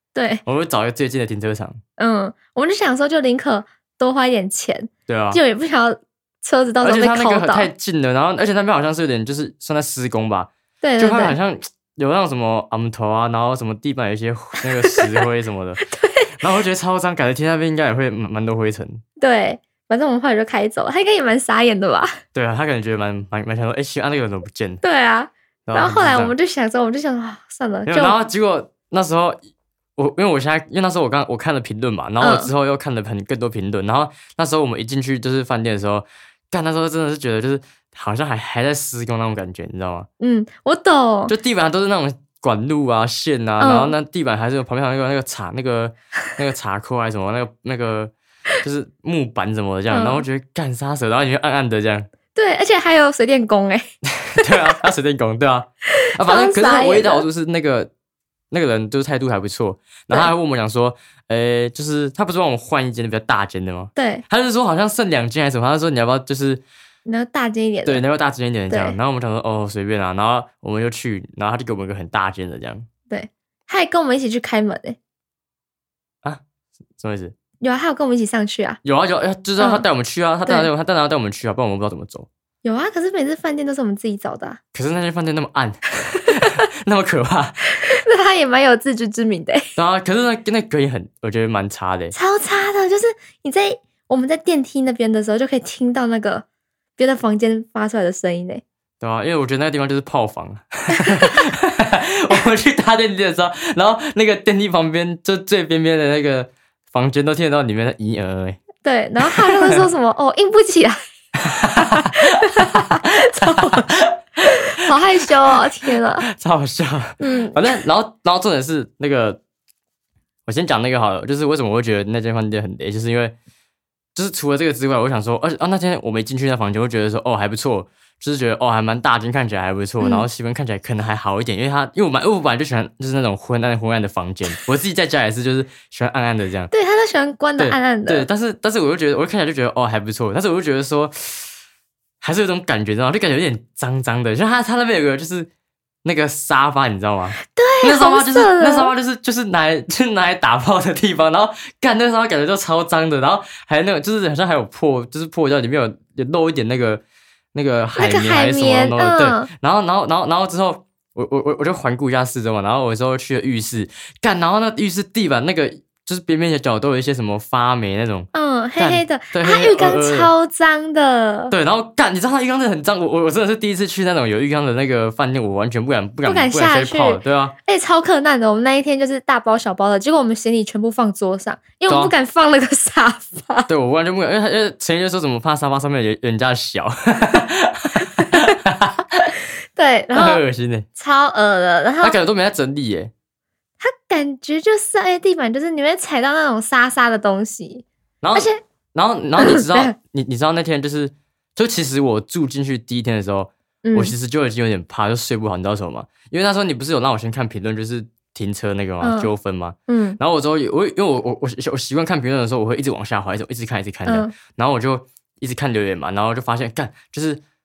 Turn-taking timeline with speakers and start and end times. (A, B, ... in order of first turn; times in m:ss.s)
0:00.1-0:00.4 A
0:00.4-0:01.8 B
0:02.0-0:07.7 A
0:05.1-0:05.4 B
0:06.8-0:15.8 B
0:10.8-0:11.4 A
0:15.8-0:16.4 A
0:16.4-0:19.0 B
0:19.2-0:22.2 A
0:22.3-0:24.8 B
0:24.8-0:28.2 A
0:25.6-0:26.3 B
0:27.8-0:29.4 B
0:30.0-0:40.1 B
0:32.2-0:32.5 A
0:40.2-0:41.3 A
0:41.3-0:52.1 B
0:43.6-0:43.9 A
0:49.9-0:50.2 A
0:52.3-0:53.8 A
0:54.1-0:57.9 B
0:54.4-0:54.8 A
0:56.0-0:57.2 A
0:58.5-1:06.6 B
1:03.9-1:04.2 A
1:07.0-1:08.0 A
1:07.8-1:12.9 B
1:08.7-1:09.0 A
1:13.1-1:15.0 A
1:17.0-1:17.3 B
1:17.6-1:18.8 A
1:18.8-1:22.3 B
1:19.6-1:19.8 A
1:22.6-1:24.6 A
1:24.7-1:27.6 B
1:27.8-1:29.7 A
1:29.8-1:32.1 B
1:32.1-1:36.4 A
1:37.0-1:38.6 A
1:39.0-1:48.6 B
1:41.0-1:41.3 A
1:48.8-1:51.0 A
1:49.2-1:49.8 B
1:51.4-1:59.4 B
1:51.8-1:53.9 A
1:54.4-1:56.2 A
1:57.2-1:57.8 A
2:00.4-2:03.3 B
2:04.1-2:16.7 B
2:10.0-2:10.2 A
2:16.7-2:18.2 A
2:17.6-2:21.5 B
2:22.2-2:25.5 B
2:26.0-2:37.0 B
2:27.4-2:28.9 A
2:37.5-2:50.3 B
2:38.0-2:39.5 A
2:48.3-2:51.5 A
2:51.5-2:57.5 B
2:56.2-3:03.7 A
3:01.9-3:02.1 B
3:03.7-3:09.3 B
3:08.2-3:08.5 A
3:09.8-3:10.4 A
3:10.1-3:10.8 B
3:11.0-3:12.2 A
3:12.0-3:13.1 B
3:13.8-3:18.6 A
3:18.2-3:37.4 B
3:19.4-3:19.9 A
3:23.8-3:24.1 A
3:29.0-3:29.3 A
3:29.9-3:30.2 A
3:34.0-3:34.3 A